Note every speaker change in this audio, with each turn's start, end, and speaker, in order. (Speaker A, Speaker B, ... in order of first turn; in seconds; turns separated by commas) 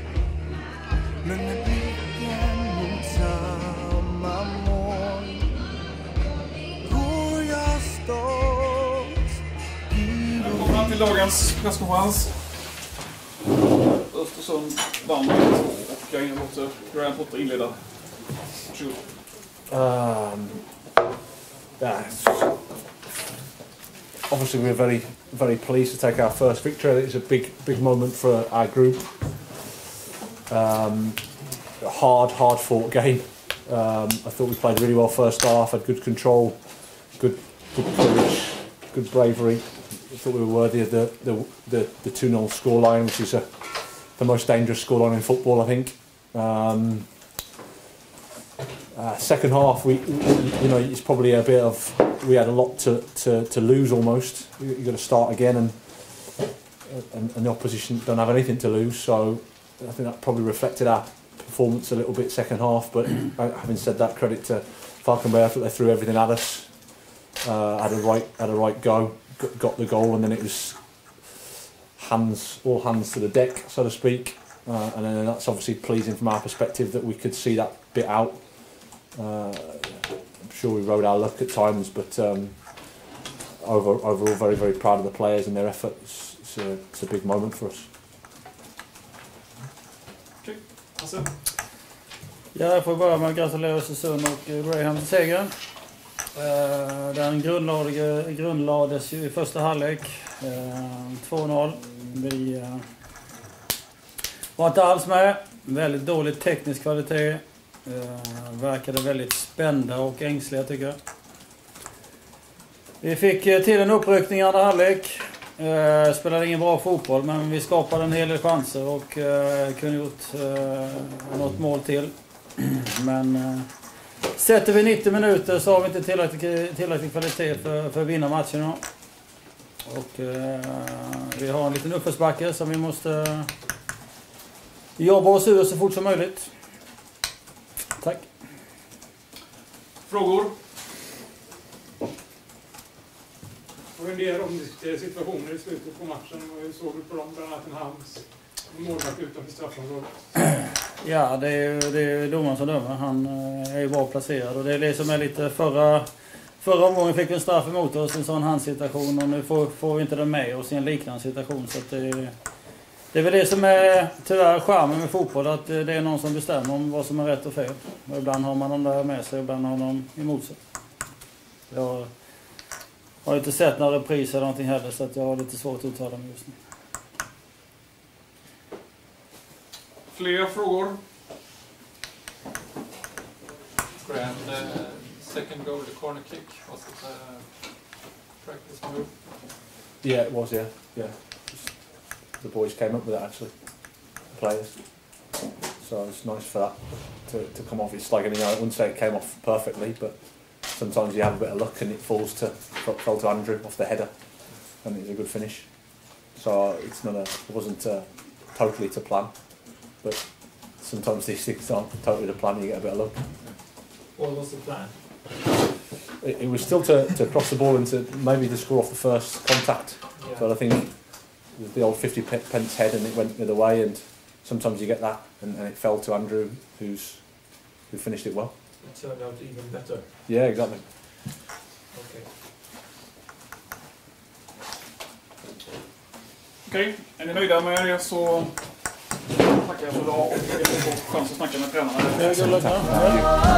Speaker A: 1.2-5.5, Speaker A: 6.8-9.3, Speaker A: 9.9-11.0, Speaker B: 10.3-12.5, Speaker B: 13.7-19.0, Speaker C: 19.7-20.7, Speaker C: 21.8-22.8, Speaker C: 24.3-29.8, Speaker C: 30.5-47.2, Speaker C: 48.9-87.9, Speaker B: 90.4-91.3, Speaker D: 92.5-95.5, Speaker D: 96.3-102.8, Speaker D: 104.5-111.0, Speaker D: 113.0-128.8, Speaker D: 129.8-133.5, Speaker D: 135.0-136.5, Speaker D: 138.0-138.3, Speaker B: 140.1-140.5, Speaker E: 143.9-150.3, Speaker D: 151.0-171.2, Speaker D: 171.7-176.6, Speaker B: 180.1-181.0, Speaker F: 184.0-189.1, Speaker B: 185.6-187.2, Speaker C: 190.0-213.2, Speaker F: 214.2-214.9, Speaker C: 216.2-228.5, Speaker F: 220.2-220.5, Speaker F: 228.8-230.1, Speaker C: 230.2-231.0, Speaker F: 231.9-232.3, Speaker B: 236.7-238.6, Speaker B: 239.3-242.4, Speaker D: 242.2-243.2, Speaker C: 242.2-243.4